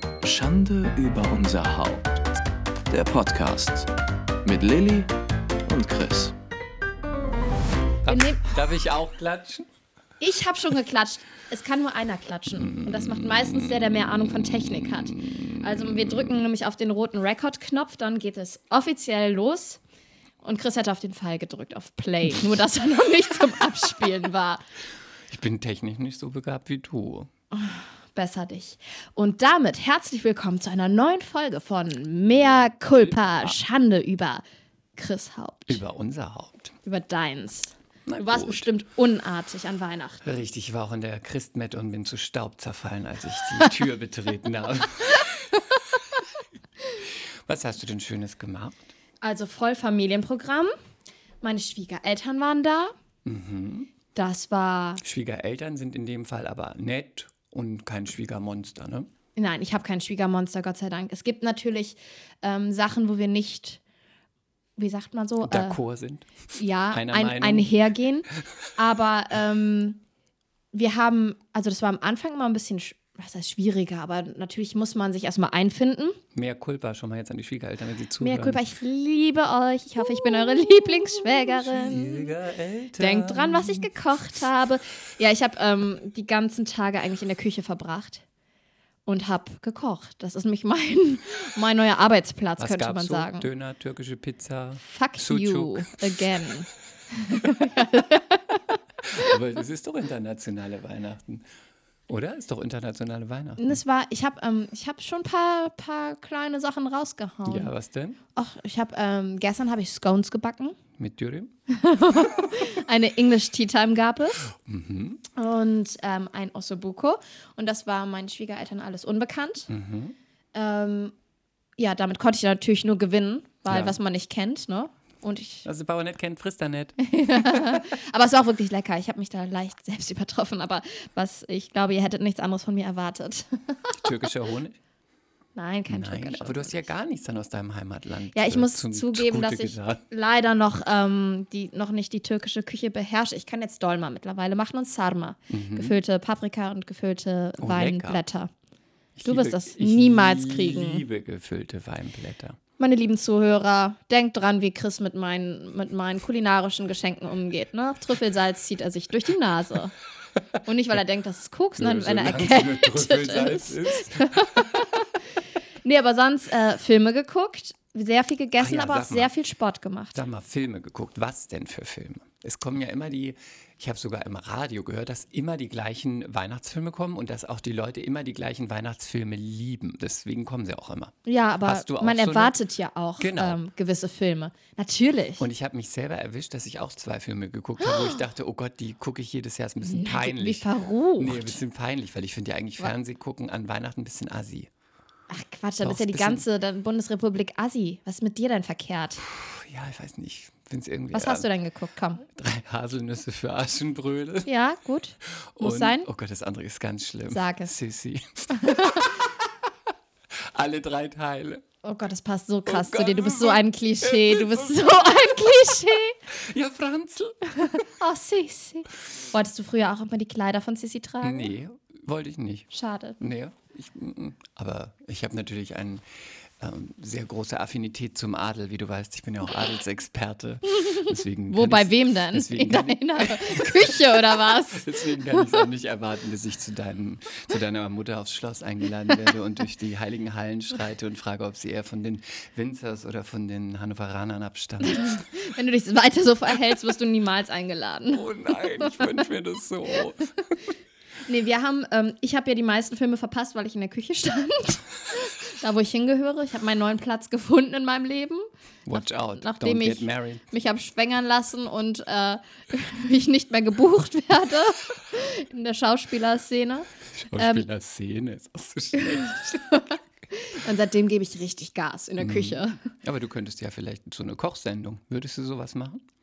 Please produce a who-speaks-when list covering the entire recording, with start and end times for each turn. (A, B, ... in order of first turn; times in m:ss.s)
0:00.2-0:02.2 A
0:02.9-0:03.9 A
0:04.4-0:05.1 A
0:05.6-0:06.3 A
0:08.0-0:09.7 B
0:08.1-0:08.5 C
0:10.2-0:19.8 C
0:12.8-0:13.5 B
0:20.4-0:24.6 C
0:25.3-0:27.3 B
0:27.5-0:34.4 C
0:32.2-0:33.6 B
0:35.0-0:35.8 C
0:35.7-0:36.8 B
0:36.8-0:40.3 C
0:38.0-0:38.7 B
0:40.2-0:46.2 B
0:47.1-0:48.9 B
0:49.2-0:50.7 C
0:51.4-0:52.9 C
0:53.2-0:53.9 B
0:54.1-0:55.0 C
0:55.0-0:59.1 B
0:59.4-1:03.8 C
1:04.8-1:05.8 C
1:05.4-1:06.3 B
1:06.5-1:10.0 C
1:06.9-1:07.7 B
1:10.7-1:16.2 C
1:16.3-1:18.6 B
1:18.2-1:22.3 C
1:21.4-1:23.9 B
1:23.0-1:28.2 C
1:29.0-1:33.5 C
1:32.6-1:35.9 B
1:34.8-1:38.8 C
1:39.0-1:41.5 B
1:42.1-1:43.7 B
1:43.6-1:47.7 C
1:47.4-1:48.2 B
1:48.3-1:50.8 C
1:51.0-1:51.5 B
1:51.7-1:54.5 C
1:54.5-1:55.2 B
1:55.3-1:59.7 C
1:59.7-2:00.1 B
2:00.5-2:01.1 C
2:01.8-2:05.6 C
2:03.7-2:04.0 B
2:05.6-2:07.8 B
2:07.0-2:14.2 C
2:13.9-2:14.8 B
2:15.6-2:16.8 C
2:15.9-2:20.0 B
2:18.3-2:28.5 C
2:25.5-2:26.0 B
2:27.6-2:28.2 B
2:29.2-2:32.6 B
2:29.2-2:31.0 C
2:32.8-2:39.9 C
2:40.6-2:45.1 C
2:41.8-2:44.8 B
2:45.8-2:50.2 C
2:48.6-2:49.3 B
2:50.1-3:02.6 B
3:01.2-3:05.4 C
3:03.2-3:03.6 B
3:05.4-3:14.7 B
3:07.8-3:08.2 C
3:09.8-3:11.6 C
3:15.3-3:19.2 C
3:15.8-3:16.4 B
3:19.2-3:21.5 B
3:21.1-3:22.2 C
3:22.4-3:24.5 B
3:24.4-3:26.1 C
3:25.6-3:29.5 B
3:27.3-3:27.7 C
3:28.6-3:29.1 C
3:30.3-3:31.6 B
3:31.8-3:36.2 C
3:32.7-3:37.8 B
3:37.7-3:41.5 C
3:41.2-4:05.2 B
3:42.7-3:43.2 C
3:51.5-3:55.5 C
4:04.8-4:09.2 C
4:08.1-4:10.7 B
4:11.2-4:27.7 C
4:18.8-4:20.4 B
4:27.1-4:29.5 B
4:29.0-4:32.8 C
4:32.2-4:36.0 B